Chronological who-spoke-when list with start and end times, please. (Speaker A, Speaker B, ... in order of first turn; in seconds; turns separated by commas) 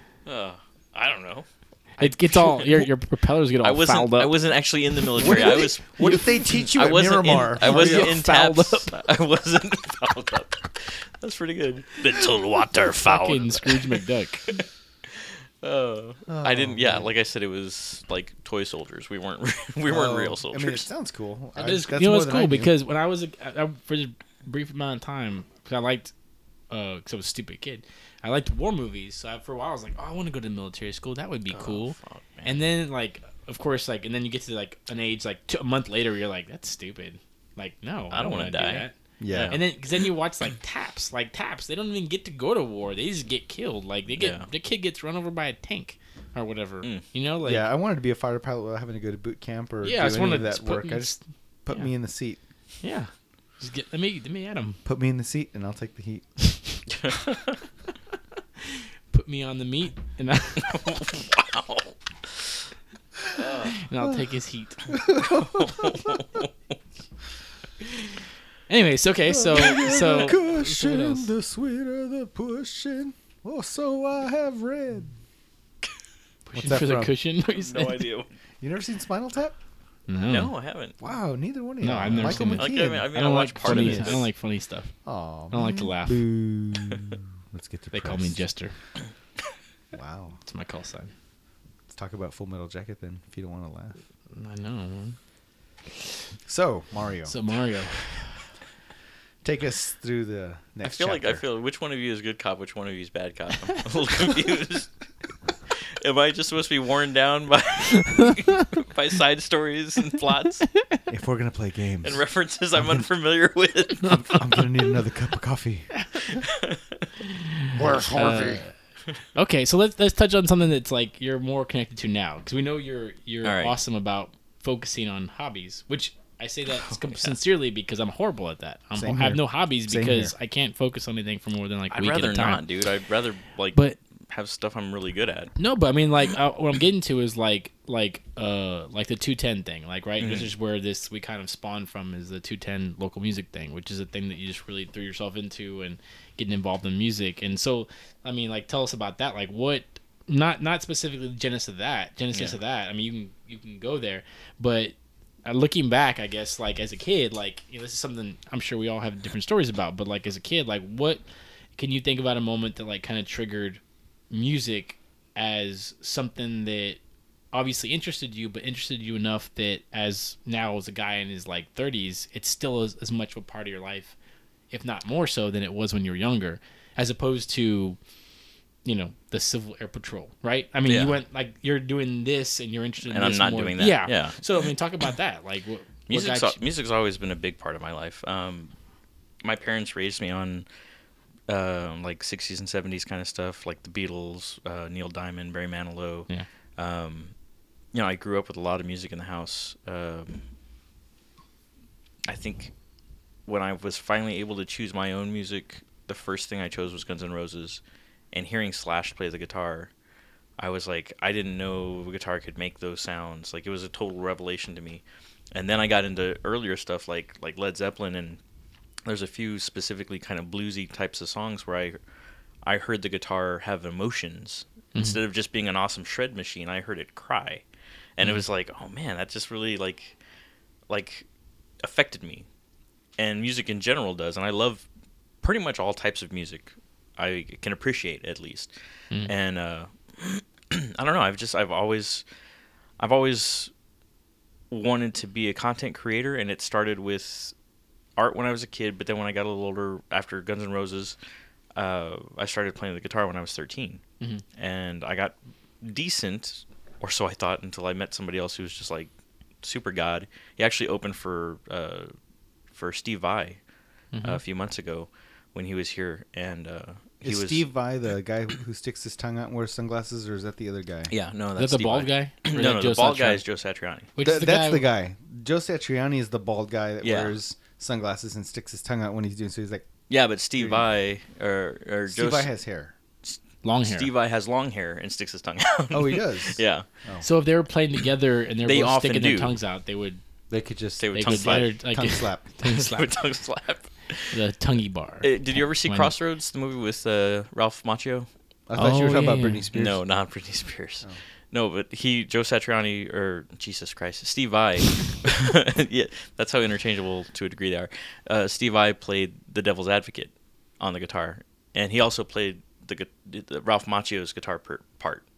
Speaker A: 0.2-1.5, Speaker A: 2.0-2.9, Speaker B: 2.0-4.3, Speaker A: 3.6-20.9, Speaker C: 5.2-8.2, Speaker B: 7.6-8.9, Speaker B: 13.0-14.5, Speaker C: 16.3-17.1, Speaker C: 19.9-22.7, Speaker B: 21.6-26.1, Speaker B: 26.7-47.7, Speaker A: 31.5-32.6, Speaker A: 38.1-39.6, Speaker C: 39.2-39.6, Speaker A: 44.1-44.5, Speaker C: 47.4-52.4, Speaker B: 49.8-51.9, Speaker B: 52.8-54.8, Speaker C: 54.9-56.2, Speaker A: 56.9-57.6, Speaker B: 58.6-61.1, Speaker A: 60.6-62.5, Speaker A: 63.3-63.9, Speaker B: 63.7-65.0, Speaker C: 64.9-66.2, Speaker A: 65.2-66.5, Speaker B: 68.7-71.3, Speaker C: 69.3-75.1, Speaker B: 76.5-78.1, Speaker C: 76.5-77.1, Speaker A: 77.5-78.3, Speaker C: 78.6-79.6, Speaker B: 80.1-80.5, Speaker A: 80.2-81.0, Speaker C: 81.0-84.2, Speaker B: 81.8-85.0, Speaker A: 82.1-84.3, Speaker C: 85.0-88.4, Speaker B: 85.5-86.3, Speaker B: 87.9-88.8, Speaker C: 89.9-90.4, Speaker B: 90.4-91.1, Speaker C: 91.9-94.0, Speaker B: 94.3-95.2, Speaker C: 96.5-97.3, Speaker B: 97.3-98.1, Speaker C: 99.4-101.4, Speaker A: 100.8-105.0, Speaker A: 105.7-110.7, Speaker C: 111.1-113.1, Speaker A: 112.0-114.6, Speaker C: 114.1-116.4, Speaker A: 116.4-117.1, Speaker B: 117.2-118.7, Speaker C: 117.7-118.6, Speaker A: 117.9-118.5, Speaker B: 119.3-132.6, Speaker A: 123.4-123.8, Speaker A: 126.8-127.4, Speaker C: 128.9-130.3, Speaker A: 131.9-135.5, Speaker B: 135.6-161.2, Speaker A: 140.2-140.5, Speaker B: 161.8-167.0, Speaker B: 167.5-174.2, Speaker B: 174.7-178.0, Speaker B: 178.8-186.6, Speaker A: 180.9-181.2, Speaker A: 183.1-184.5, Speaker A: 186.1-188.7, Speaker A: 189.4-190.7, Speaker A: 191.5-197.3, Speaker A: 197.9-200.4, Speaker A: 202.3-202.7, Speaker A: 203.5-207.8, Speaker A: 208.3-209.9, Speaker A: 210.6-218.4, Speaker A: 219.1-222.0, Speaker A: 222.6-227.6, Speaker A: 228.2-230.2, Speaker A: 230.9-231.3, Speaker A: 231.8-232.4, Speaker A: 233.2-234.9, Speaker A: 235.4-238.7, Speaker A: 239.2-242.2, Speaker A: 243.0-243.7, Speaker A: 244.7-247.5, Speaker A: 248.2-251.2, Speaker A: 251.8-254.0, Speaker A: 254.6-259.1, Speaker A: 259.6-262.1, Speaker A: 262.7-263.6, Speaker B: 264.1-264.4, Speaker A: 264.2-267.7, Speaker C: 267.2-271.1, Speaker A: 271.1-274.1, Speaker B: 271.6-273.4, Speaker B: 274.1-274.9, Speaker C: 274.2-279.9, Speaker A: 277.0-277.4, Speaker A: 280.1-282.5, Speaker C: 280.6-280.9, Speaker C: 282.1-282.9, Speaker A: 283.3-286.9, Speaker B: 283.6-284.1, Speaker C: 285.9-287.3, Speaker B: 287.2-290.2, Speaker A: 288.6-289.6, Speaker C: 290.5-292.4, Speaker A: 291.0-291.7, Speaker B: 291.1-293.1, Speaker A: 292.6-294.4, Speaker B: 294.3-296.1, Speaker A: 295.2-298.3, Speaker C: 298.7-300.0, Speaker B: 298.8-299.6, Speaker A: 299.7-315.2